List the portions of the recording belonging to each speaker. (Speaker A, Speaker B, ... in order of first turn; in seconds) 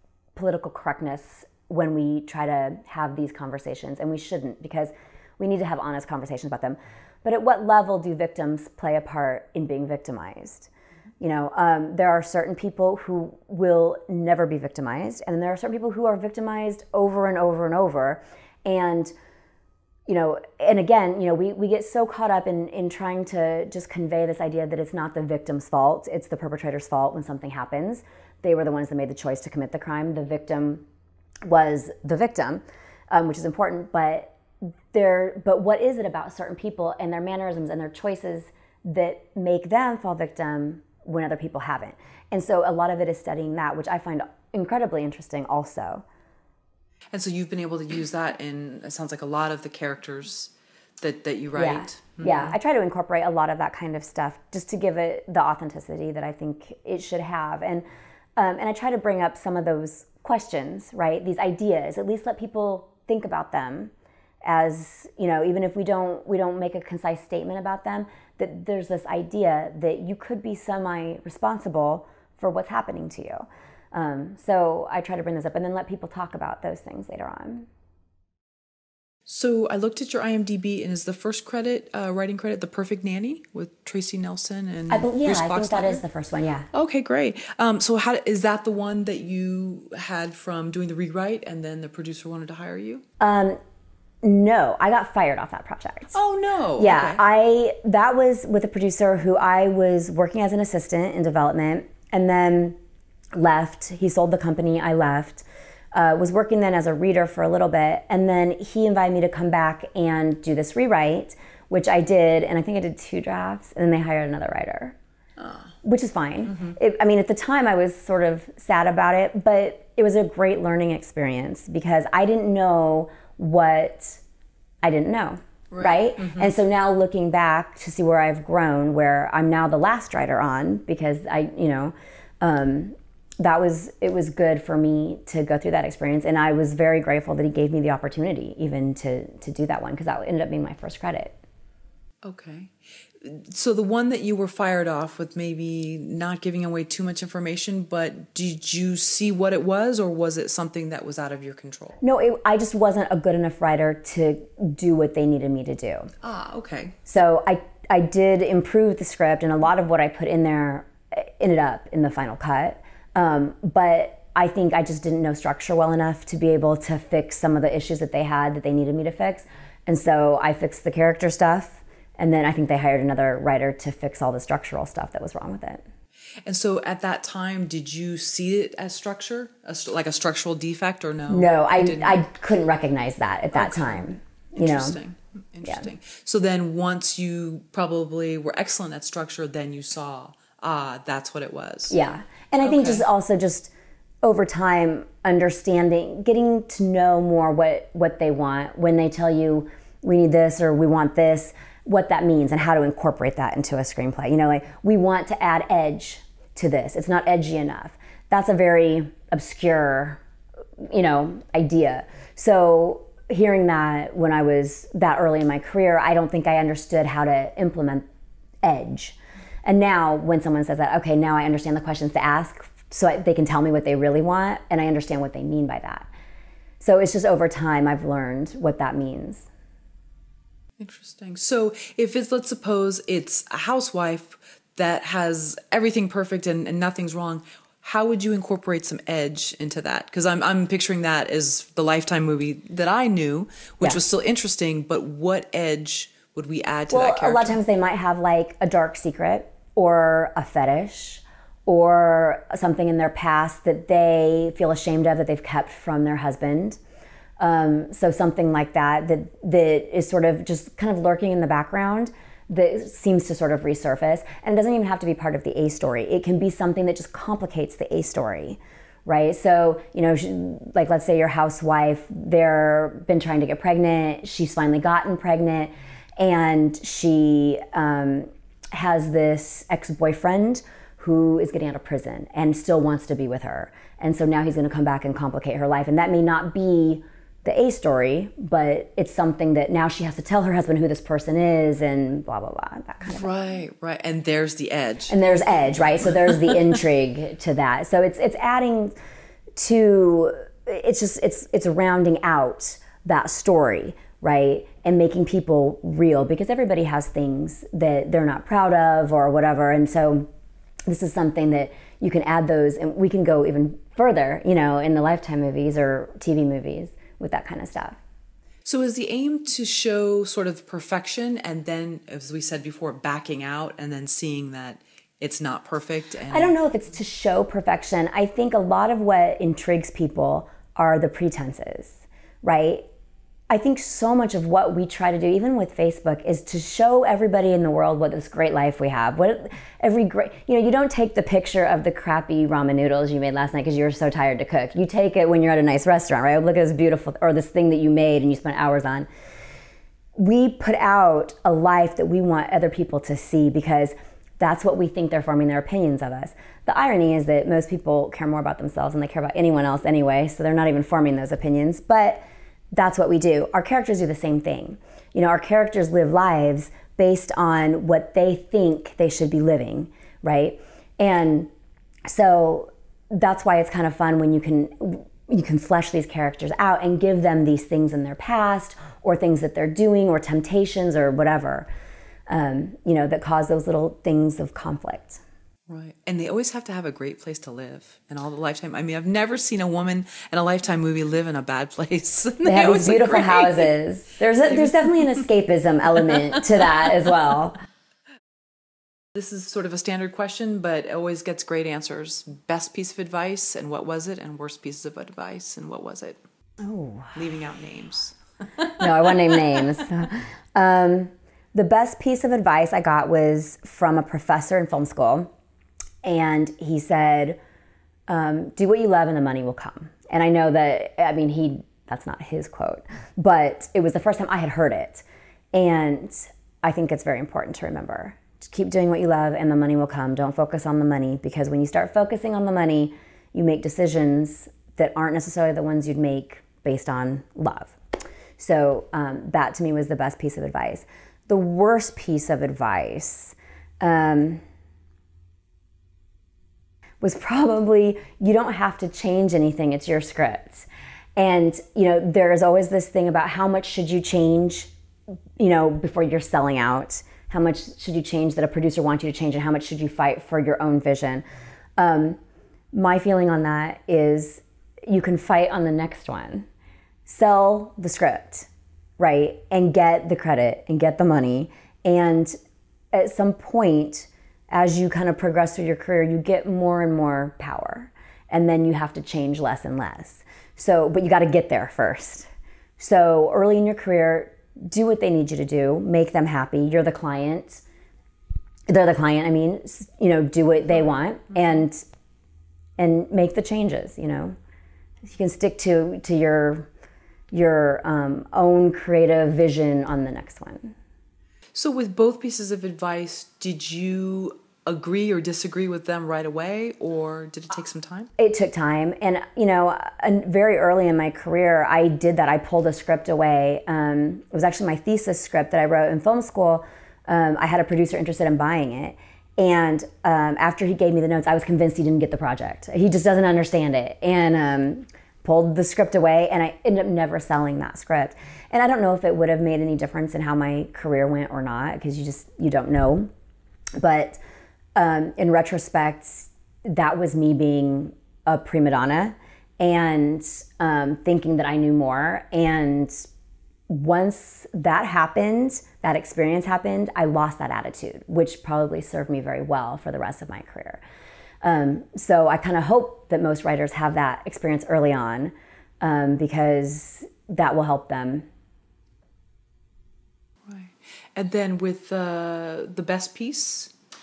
Speaker A: 0.3-19.1, 20.1-30.8, 31.4-34.4, 34.9-46.0, 51.5-57.8, 58.4-63.9, 64.4-77.7, 84.9-86.7, 93.2-93.6, 94.2-96.2, 96.8-102.8, 103.3-115.0, 115.8-124.2, 124.8-141.3, 152.0-156.1, 157.1-175.8, 181.3-184.9, 191.9-193.7, 194.2-210.2, 210.8-218.1, 218.6-226.1, 226.8-229.5, 246.9-256.8, 257.4-293.3, 295.1-298.9, 299.6-310.3, 310.9-318.0, 326.3-332.8, 333.5-349.1, 350.2-371.5, 372.1-381.7, 382.3-385.2, 392.4-397.6, 406.6-407.1, 408.7-415.3, 416.0-417.4, 418.1-437.8, 438.4-444.4, 447.0-454.7, 455.4-461.2, 461.8-462.2, 462.7-466.4, 467.1-472.3, 472.9-487.6, 488.7-491.8, 492.8-494.3, 495.0-496.7, 497.3-500.8, 508.2-533.1, 533.8-534.2, 534.7-543.1, 543.7-550.8, 551.4-558.2
Speaker B: 47.1-52.5, 79.3-86.0, 86.7-93.0, 96.1-97.2, 115.4-115.7, 116.5-116.7, 125.7-126.5, 142.2-152.0, 156.2-156.9, 176.4-182.2, 183.5-191.9, 192.6-193.0, 230.8-247.6, 293.0-295.1, 318.6-326.5, 385.7-393.7, 394.5-394.9, 399.1-406.2, 407.1-409.3, 501.5-508.1, 560.5-563.7